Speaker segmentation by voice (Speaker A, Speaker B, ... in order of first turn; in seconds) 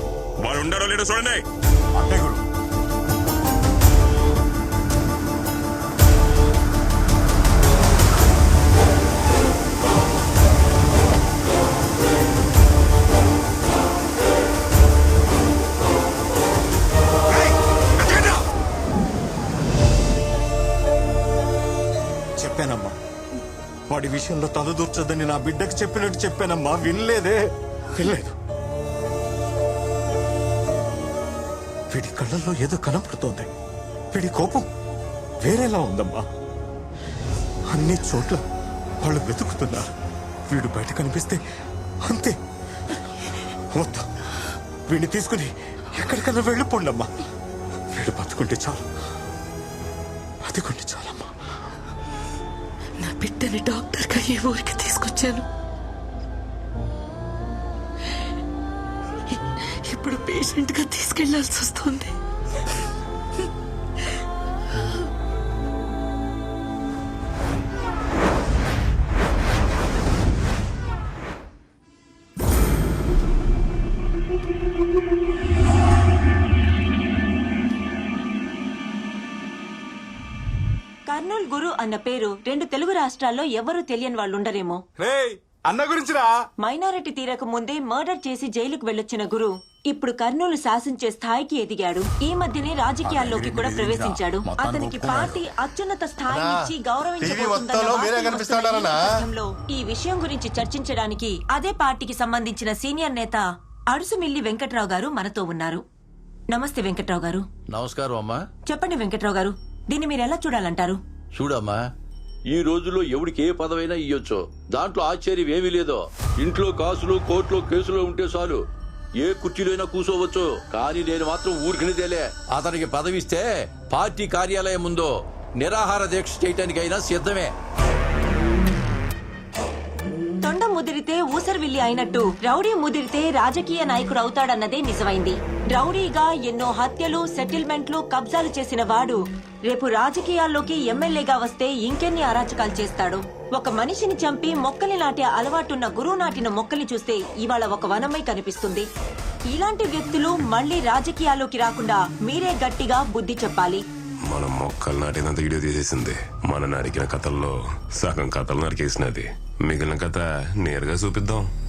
Speaker A: 0.4-1.4, 154.3-161.5
Speaker B: 2.0-2.4, 22.4-22.9, 23.9-27.4, 27.9-28.3, 31.9-33.5, 34.1-34.7, 35.4-36.2, 37.7-38.4, 39.0-39.9, 40.5-41.4, 42.0-42.4, 43.7-44.0, 44.9-47.1, 47.9-48.8, 50.5-51.3, 85.1-86.3, 93.2-95.3, 97.5-98.6
Speaker C: 53.0-55.4, 59.9-62.1
Speaker D: 81.1-84.8, 86.6-105.8, 106.5-107.4, 108.7-111.0, 130.4-148.9, 149.5-153.8
Speaker E: 107.7-108.4, 111.3-111.8, 112.5-118.6, 119.2-127.5